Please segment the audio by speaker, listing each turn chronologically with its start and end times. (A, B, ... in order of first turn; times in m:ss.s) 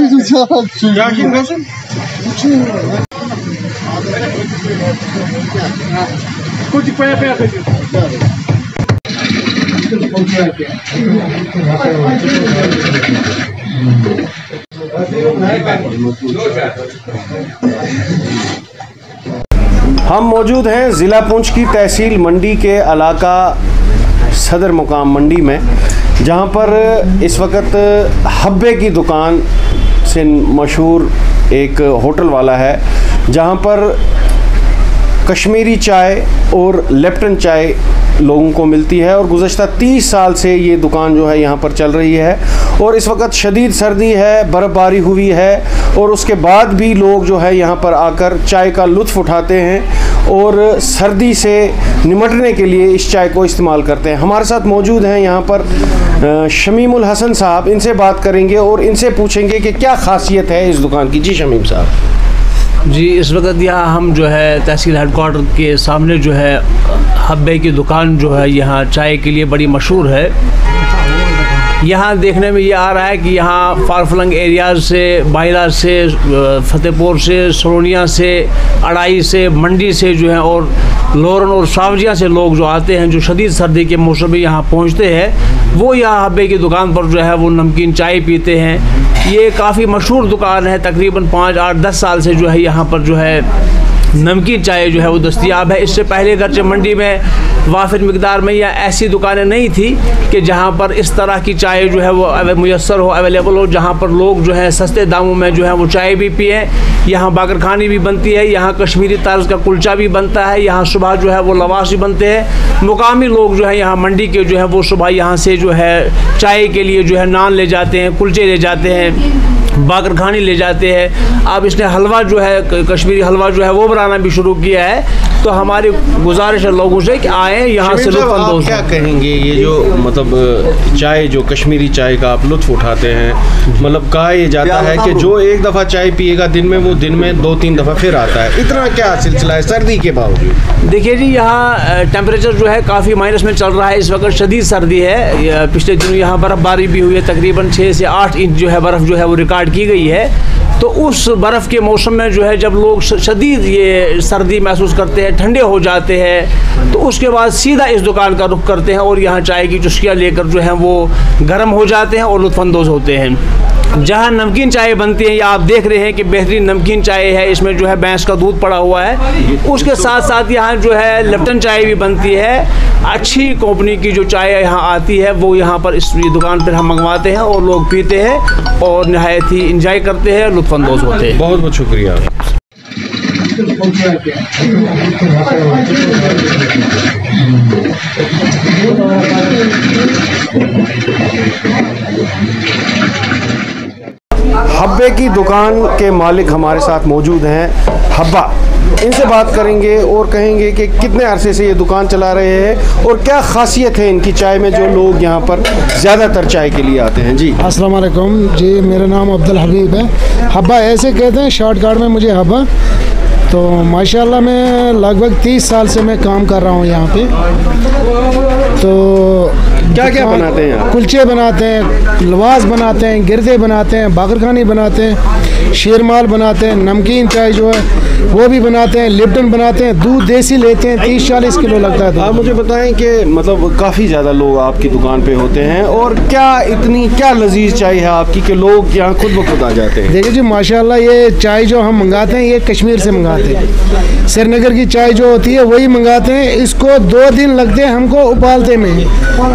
0:00.9-0:01.6 A
0:15.5-0:16.5 A
0:20.0-0:23.6 A
0:24.3-0:25.7 A
0:26.2-0:29.4 A
0:30.0-0:34.0 A
0:35.2-1:01.9 A
1:02.8-1:10.3 B
1:11.8-1:33.5 B
1:34.1-2:08.9 B
2:07.8-2:20.6 A
2:20.8-3:01.4 B
3:01.3-3:02.3 A
3:14.6-3:27.6 A
3:27.6-3:32.7 C
3:33.5-3:37.3 C
3:38.8-3:45.2 C
3:39.9-3:40.9 A
3:45.7-3:52.3 C
3:52.2-4:00.2 A
4:00.1-4:03.6 C
4:04.3-4:09.1 C